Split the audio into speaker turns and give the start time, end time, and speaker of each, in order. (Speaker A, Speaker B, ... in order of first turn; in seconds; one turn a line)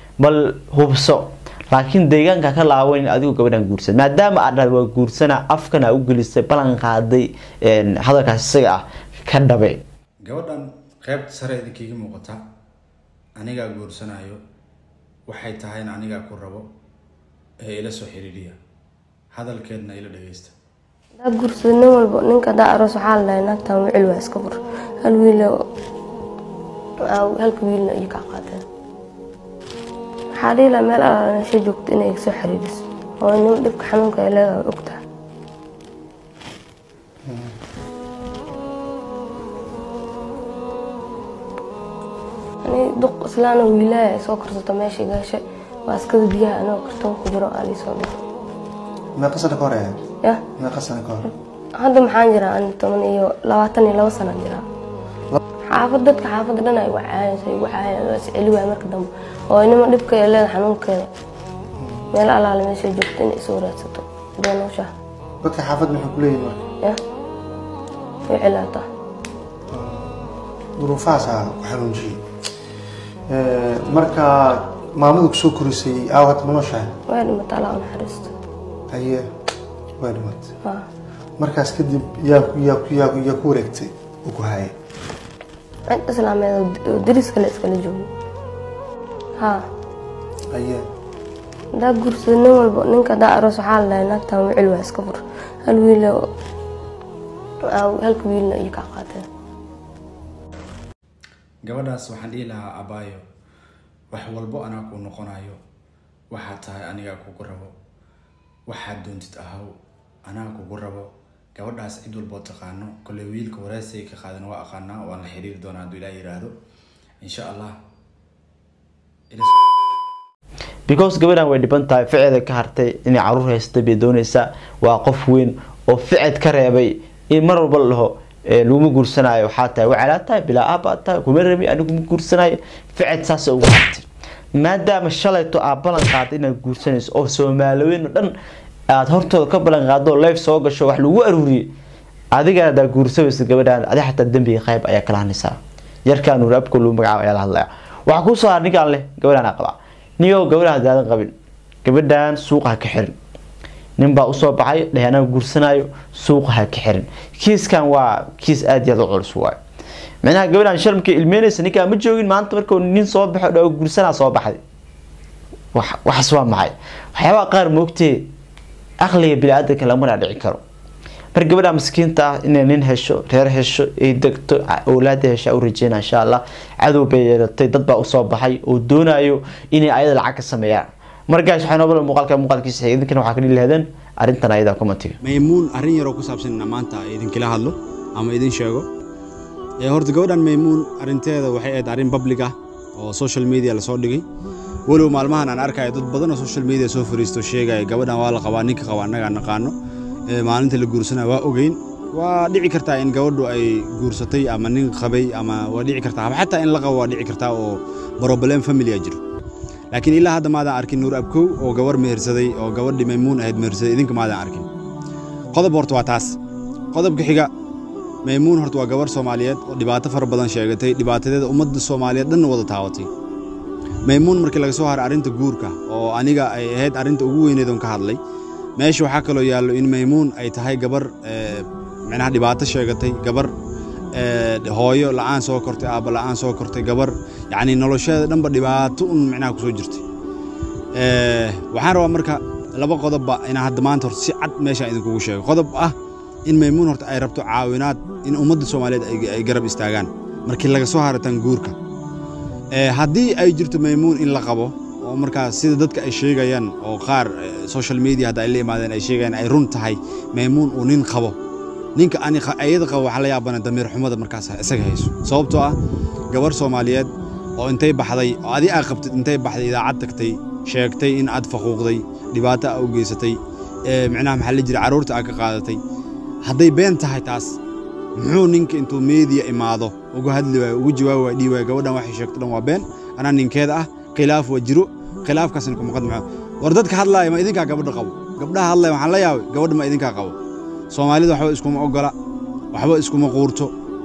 Speaker A: 0.2-9.8
Speaker B: 10.2-12.4
Speaker B: 13.4-14.4
Speaker B: 15.3-16.7
Speaker B: 17.6-18.6
Speaker B: 19.3-20.5
Speaker C: 21.2-25.5
Speaker C: 27.1-28.6
Speaker C: 30.4-35.0
Speaker D: 37.3-37.5
Speaker C: 42.6-48.2
Speaker D: 49.1-50.0
Speaker D: 50.6-51.3
Speaker C: 51.8-54.6
Speaker C: 55.7-61.1
Speaker D: 61.8-62.1
Speaker C: 62.1-64.9
Speaker D: 65.4-66.6
Speaker C: 68.3-68.9
Speaker D: 69.7-72.2
Speaker D: 73.3-76.9
Speaker C: 77.1-78.3
Speaker D: 78.9-79.2
Speaker D: 80.0-80.5
Speaker D: 81.4-84.8
Speaker C: 85.9-88.1
Speaker D: 90.5-90.8
Speaker C: 91.8-96.2
Speaker C: 97.6-99.2
Speaker B: 101.6-103.2
Speaker B: 104.1-105.6
Speaker B: 106.3-107.7
Speaker B: 108.7-109.7
Speaker B: 110.2-116.5
Speaker B: 117.2-117.8
Speaker B: 119.3-119.5
Speaker A: 120.9-138.3
Speaker A: 138.9-141.7
Speaker A: 142.3-151.3
Speaker A: 151.8-153.1
Speaker A: 154.0-159.6
Speaker A: 160.2-164.6
Speaker A: 165.7-168.3
Speaker A: 169.0-170.6
Speaker A: 171.3-185.2
Speaker B: 185.2-188.9
Speaker B: 189.8-194.2
Speaker B: 194.9-199.7
Speaker B: 200.3-209.2
Speaker B: 209.9-214.7
Speaker B: 215.5-216.4
Speaker B: 216.9-217.5
Speaker B: 218.2-223.1
Speaker B: 224.1-228.2
Speaker B: 228.8-233.5
Speaker B: 234.1-240.0
Speaker B: 240.9-245.9
Speaker B: 246.5-251.8
Speaker B: 252.7-261.4
Speaker B: 261.9-265.8
Speaker B: 266.3-275.8
Speaker B: 276.4-277.6
Speaker B: 278.1-290.4
Speaker B: 290.9-292.1
Speaker B: 292.7-293.7